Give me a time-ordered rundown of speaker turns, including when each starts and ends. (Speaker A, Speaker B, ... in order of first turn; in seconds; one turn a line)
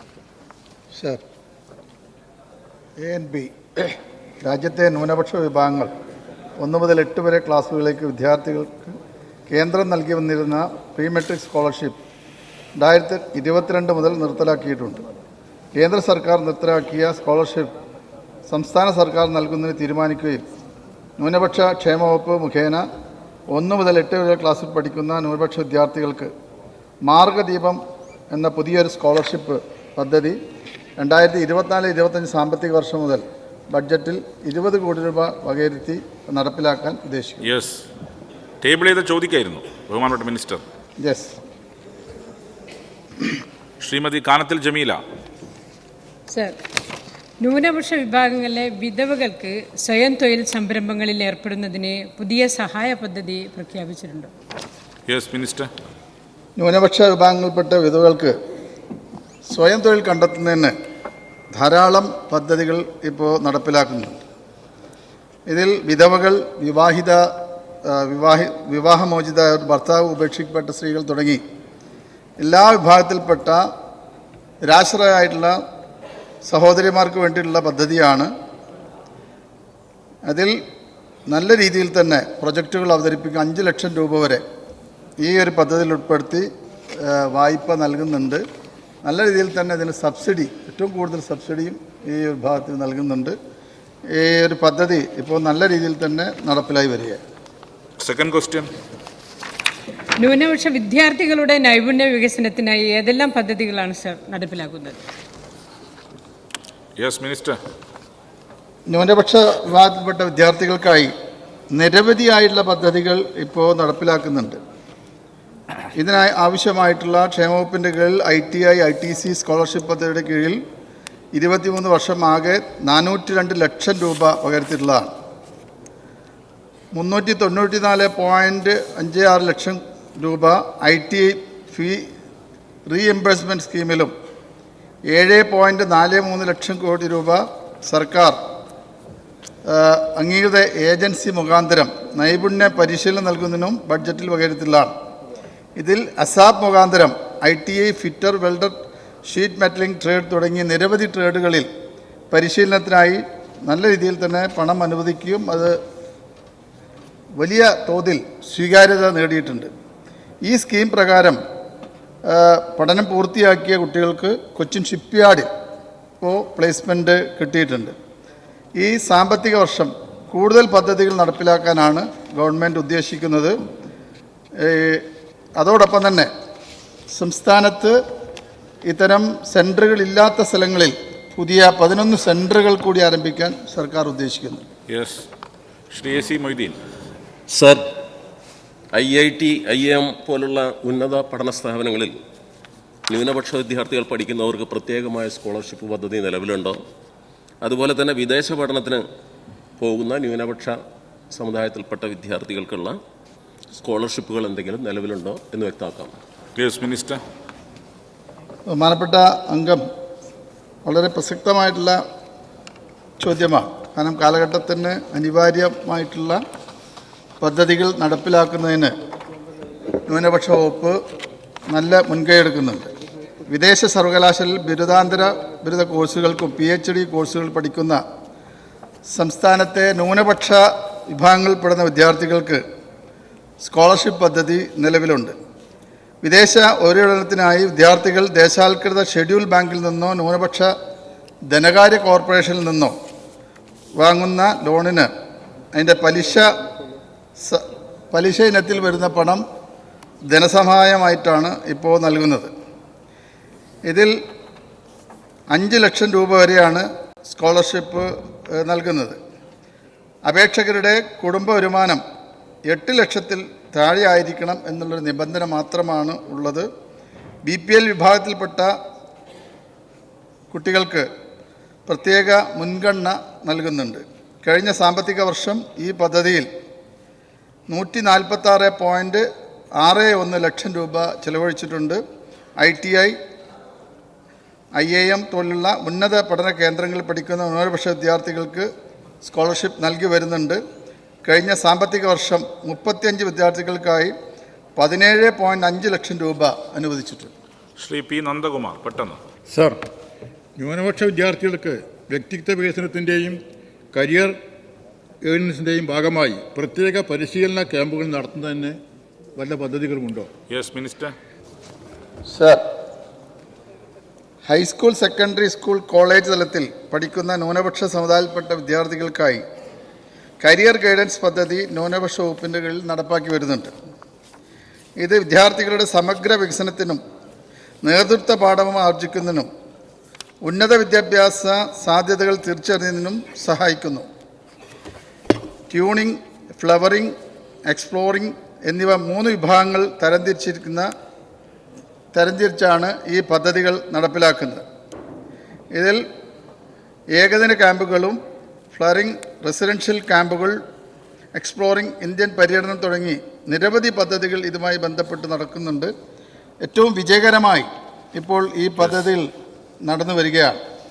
Speaker A: 0.9-1.2
Speaker A: 3.0-5.9
Speaker A: 6.6-8.9
Speaker A: 9.5-12.0
Speaker A: 12.8-15.0
Speaker A: 15.8-17.7
Speaker A: 18.5-20.4
Speaker A: 21.2-22.9
Speaker A: 23.5-26.3
Speaker A: 27.0-27.8
Speaker A: 28.3-30.4
Speaker A: 31.0-37.5
Speaker B: 37.4-37.8
Speaker B: 38.6-40.6
Speaker A: 41.0-41.4
Speaker B: 43.8-45.0
Speaker C: 46.3-46.5
Speaker C: 47.4-54.3
Speaker B: 55.1-55.7
Speaker A: 56.6-58.4
Speaker A: 59.5-60.7
Speaker A: 61.5-64.2
Speaker A: 65.5-67.3
Speaker A: 67.8-71.4
Speaker A: 72.4-73.7
Speaker A: 74.6-75.6
Speaker A: 76.4-78.3
Speaker A: 80.2-80.6
Speaker A: 81.3-84.4
Speaker A: 85.2-88.4
Speaker A: 89.0-93.3
Speaker A: 94.1-97.2
Speaker B: 98.0-98.7
Speaker C: 100.2-105.0
Speaker B: 107.0-107.6
Speaker A: 108.9-111.1
Speaker A: 111.7-114.6
Speaker A: 115.9-120.6
Speaker A: 121.3-125.1
Speaker A: 126.9-132.1
Speaker A: 132.9-134.1
Speaker A: 135.1-138.4
Speaker A: 139.7-144.9
Speaker A: 145.8-151.7
Speaker A: 152.3-155.8
Speaker A: 157.4-159.7
Speaker A: 160.4-161.4
Speaker A: 162.2-165.5
Speaker A: 166.2-167.9
Speaker A: 168.8-173.6
Speaker A: 174.6-175.1
Speaker A: 175.6-176.3
Speaker A: 177.1-178.0
Speaker A: 178.8-184.7
Speaker B: 184.9-185.2
Speaker B: 185.9-186.8
Speaker D: 187.5-187.8
Speaker D: 188.9-192.2
Speaker D: 193.1-196.8
Speaker D: 197.6-199.0
Speaker D: 199.8-200.8
Speaker D: 201.3-202.9
Speaker D: 203.8-206.1
Speaker B: 206.6-207.2
Speaker A: 208.7-209.8
Speaker A: 210.8-212.0
Speaker A: 213.2-216.4
Speaker A: 217.4-218.9
Speaker A: 220.0-221.0
Speaker A: 221.7-222.9
Speaker A: 223.5-228.0
Speaker A: 229.1-232.6
Speaker A: 233.6-235.3
Speaker A: 236.2-240.7
Speaker A: 241.5-242.9
Speaker A: 244.0-245.1
Speaker A: 245.7-246.5
Speaker A: 247.4-249.4
Speaker A: 250.3-252.5
Speaker A: 253.8-254.1
Speaker A: 255.5-259.2
Speaker A: 260.2-262.0
Speaker A: 262.7-266.7
Speaker A: 267.4-268.7
Speaker A: 270.5-271.1
Speaker A: 271.9-276.5
Speaker A: 277.7-279.2
Speaker A: 279.8-282.0
Speaker A: 282.6-283.1
Speaker A: 284.7-288.7
Speaker A: 289.2-290.6
Speaker A: 291.2-294.1
Speaker A: 294.8-297.3
Speaker B: 297.8-299.2
Speaker E: 299.5-299.8
Speaker E: 300.6-303.4
Speaker E: 303.9-304.4
Speaker E: 305.2-308.8
Speaker E: 309.4-310.3
Speaker B: 310.5-311.1
Speaker A: 312.3-312.6
Speaker A: 314.4-319.4
Speaker A: 320.4-323.7
Speaker A: 325.0-327.0
Speaker A: 327.8-329.5
Speaker A: 330.4-334.1
Speaker A: 335.7-337.1
Speaker A: 337.7-340.9
Speaker A: 342.1-344.6
Speaker A: 345.7-346.0
Speaker A: 347.1-348.2
Speaker A: 348.7-350.6
Speaker A: 351.3-355.9
Speaker A: 356.6-359.3
Speaker A: 359.8-360.6